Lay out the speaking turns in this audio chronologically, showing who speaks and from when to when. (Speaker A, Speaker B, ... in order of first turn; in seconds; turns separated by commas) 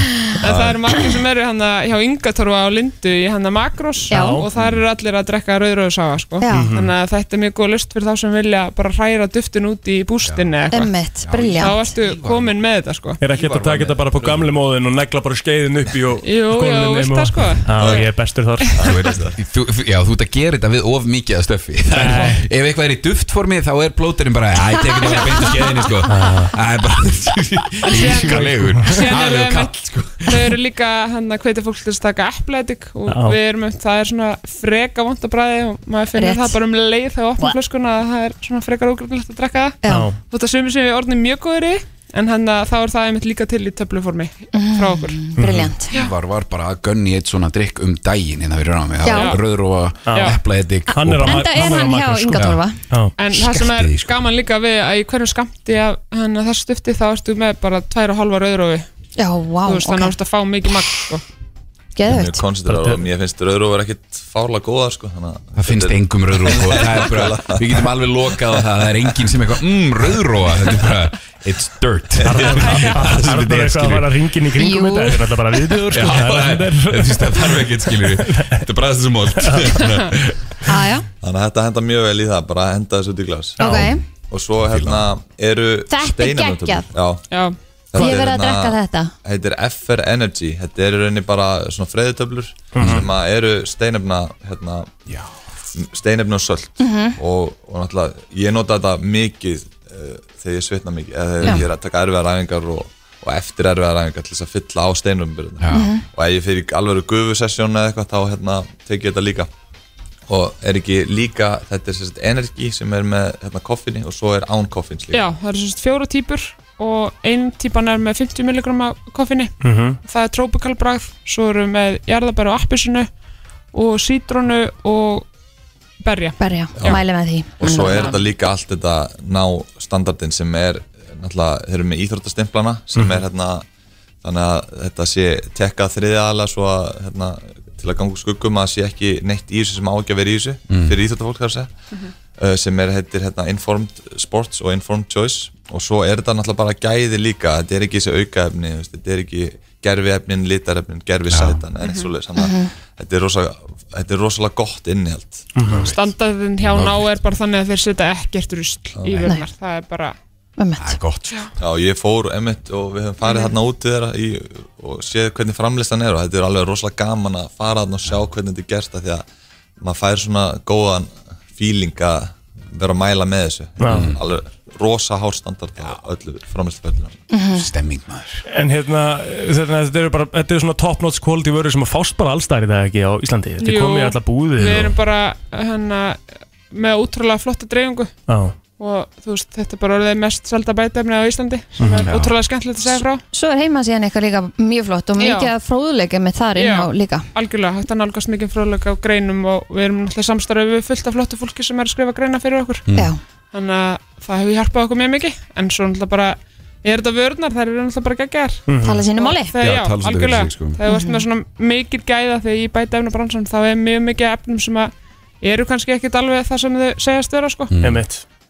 Speaker A: 0.4-10.9, Speaker B: 0.4-0.8, Speaker C: 4.1-4.4, Speaker D: 4.1-4.5, Speaker C: 6.4-6.7, Speaker D: 6.5-6.9, Speaker B: 10.2-10.6, Speaker C: 10.7-11.9, Speaker B: 11.2-12.6, Speaker A: 11.5-13.2, Speaker D: 13.2-18.7, Speaker B: 13.2-14.5, Speaker A: 16.2-18.1, Speaker E: 17.8-18.0, Speaker E: 18.8-19.4, Speaker B: 18.8-30.5, Speaker D: 21.9-22.4, Speaker D: 26.1-26.5, Speaker D: 27.9-29.1, Speaker A: 27.9-45.2, Speaker D: 33.1-33.4, Speaker C: 36.1-36.6, Speaker C: 39.8-40.1, Speaker D: 39.8-40.2, Speaker C: 44.5-45.9, Speaker D: 45.4-45.7, Speaker B: 45.9-51.8, Speaker C: 49.0-49.3, Speaker A: 49.0-49.4, Speaker D: 50.1-50.4, Speaker A: 50.1-50.4, Speaker C: 50.9-52.8, Speaker D: 50.9-53.1, Speaker B: 52.3-52.6, Speaker A: 53.2-58.9, Speaker B: 53.3-54.2, Speaker C: 59.2-60.1, Speaker A: 59.6-61.2, Speaker C: 62.0-62.4, Speaker E: 62.0-67.9, Speaker D: 62.7-63.0, Speaker B: 65.5-74.1, Speaker E: 72.2-72.5, Speaker D: 72.2-78.7, Speaker A: 72.6-73.0, Speaker C: 74.6-75.2, Speaker B: 75.9-80.6, Speaker D: 79.4-79.8, Speaker C: 80.7-81.0, Speaker E: 81.2-87.2, Speaker D: 83.6-83.8, Speaker C: 83.6-84.0, Speaker B: 84.7-85.0, Speaker C: 85.9-86.9, Speaker A: 87.3-87.6, Speaker E: 87.9-94.9, Speaker C: 88.0-89.1, Speaker D: 92.7-93.0, Speaker B: 92.8-93.1, Speaker E: 95.8-109.5, Speaker C: 96.8-97.2, Speaker B: 101.4-101.7, Speaker B: 105.6-105.9, Speaker C: 105.7-106.0, Speaker E: 110.3-115.3, Speaker A: 115.1-123.1, Speaker D: 119.6-120.0, Speaker A: 123.7-125.3, Speaker A: 126.0-127.0, Speaker C: 126.4-128.2, Speaker E: 126.8-133.6, Speaker E: 134.2-141.7, Speaker B: 140.7-140.9, Speaker E: 142.3-155.5, Speaker B: 151.3-151.6, Speaker A: 151.8-152.1, Speaker C: 152.3-152.7, Speaker D: 155.6-155.8, Speaker B: 155.6-157.1, Speaker A: 155.8-160.1, Speaker E: 158.9-159.3, Speaker C: 160.6-161.0, Speaker B: 160.8-161.5, Speaker E: 161.6-169.2, Speaker A: 163.2-163.5, Speaker E: 169.8-177.2, Speaker D: 173.8-174.1, Speaker B: 173.9-174.2, Speaker C: 177.3-177.7, Speaker B: 177.5-178.4, Speaker D: 178.5-184.9, Speaker A: 183.6-188.1, Speaker D: 188.3-188.6, Speaker A: 188.8-193.2, Speaker D: 191.8-192.1, Speaker B: 192.0-192.4, Speaker C: 193.3-197.2, Speaker A: 195.2-195.5, Speaker A: 196.6-202.8, Speaker B: 202.9-203.1, Speaker C: 202.9-203.2, Speaker A: 203.5-208.6, Speaker D: 208.7-209.1, Speaker C: 208.8-209.5, Speaker A: 209.1-217.7, Speaker B: 209.6-210.8, Speaker C: 210.8-211.2, Speaker B: 217.7-218.1, Speaker D: 217.8-218.2